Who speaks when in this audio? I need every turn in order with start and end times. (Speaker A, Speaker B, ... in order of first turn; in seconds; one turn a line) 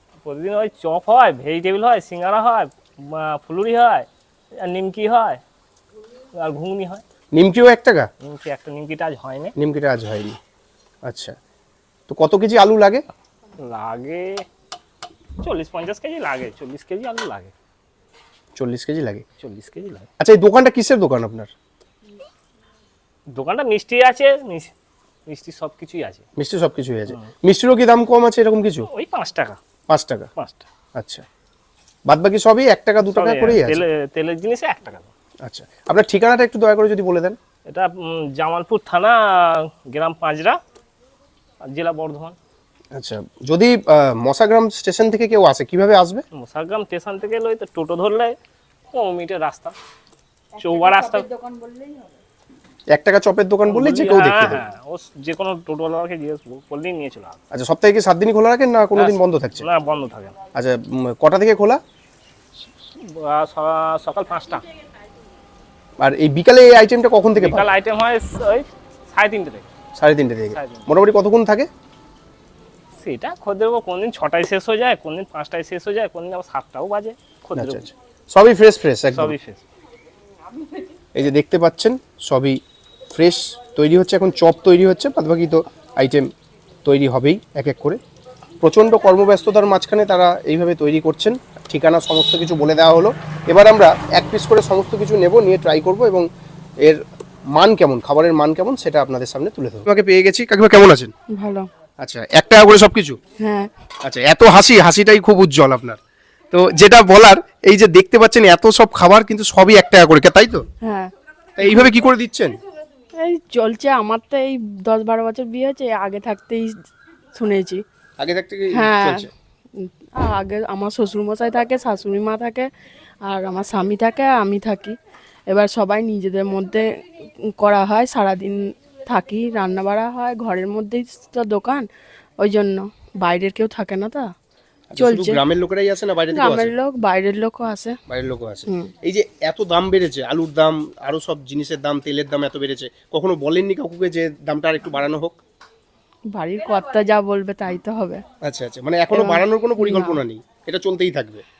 Speaker A: 0.1-4.1
Speaker A: 4.6-5.4
Speaker A: 6.4-7.0
Speaker B: 7.3-8.1
Speaker A: 8.2-9.5
Speaker B: 9.6-10.4
Speaker B: 11.0-11.3
Speaker B: 12.1-13.0
Speaker A: 13.6-14.4
Speaker A: 15.4-17.5
Speaker B: 18.6-19.2
Speaker A: 19.4-20.1
Speaker B: 20.2-21.5
Speaker A: 23.3-24.7
Speaker A: 25.3-26.2
Speaker B: 26.4-28.9
Speaker A: 28.9-29.6
Speaker B: 29.9-30.3
Speaker A: 30.4-30.6
Speaker B: 30.9-31.2
Speaker B: 32.0-33.8
Speaker A: 33.1-35.1
Speaker B: 35.4-37.4
Speaker A: 37.7-40.6
Speaker A: 41.7-42.4
Speaker B: 42.9-46.2
Speaker A: 46.4-48.3
Speaker A: 48.9-49.7
Speaker A: 50.6-51.3
Speaker C: 51.5-52.0
Speaker B: 52.9-54.6
Speaker A: 53.6-57.4
Speaker B: 57.5-59.7
Speaker A: 59.0-60.3
Speaker B: 60.5-61.8
Speaker A: 62.9-64.7
Speaker B: 66.0-67.7
Speaker A: 67.3-69.7
Speaker B: 70.0-71.7
Speaker A: 70.5-70.9
Speaker A: 72.9-77.8
Speaker B: 77.5-79.3
Speaker A: 79.1-79.6
Speaker B: 81.1-82.6
Speaker B: 83.1-86.3
Speaker B: 86.8-88.0
Speaker B: 88.6-96.3
Speaker B: 96.8-101.1
Speaker C: 101.3-101.7
Speaker B: 102.0-103.2
Speaker C: 103.4-103.7
Speaker B: 104.0-106.0
Speaker B: 106.5-110.6
Speaker C: 110.8-111.1
Speaker B: 111.6-112.6
Speaker C: 111.6-111.9
Speaker C: 113.2-116.7
Speaker C: 117.3-117.8
Speaker B: 118.2-119.3
Speaker C: 118.7-122.7
Speaker C: 123.3-125.0
Speaker C: 125.5-126.8
Speaker C: 127.6-131.8
Speaker C: 132.4-134.3
Speaker B: 134.9-136.7
Speaker C: 135.0-135.4
Speaker C: 136.3-137.9
Speaker B: 138.1-145.4
Speaker C: 146.3-148.2
Speaker B: 148.4-151.4
Speaker C: 149.1-150.2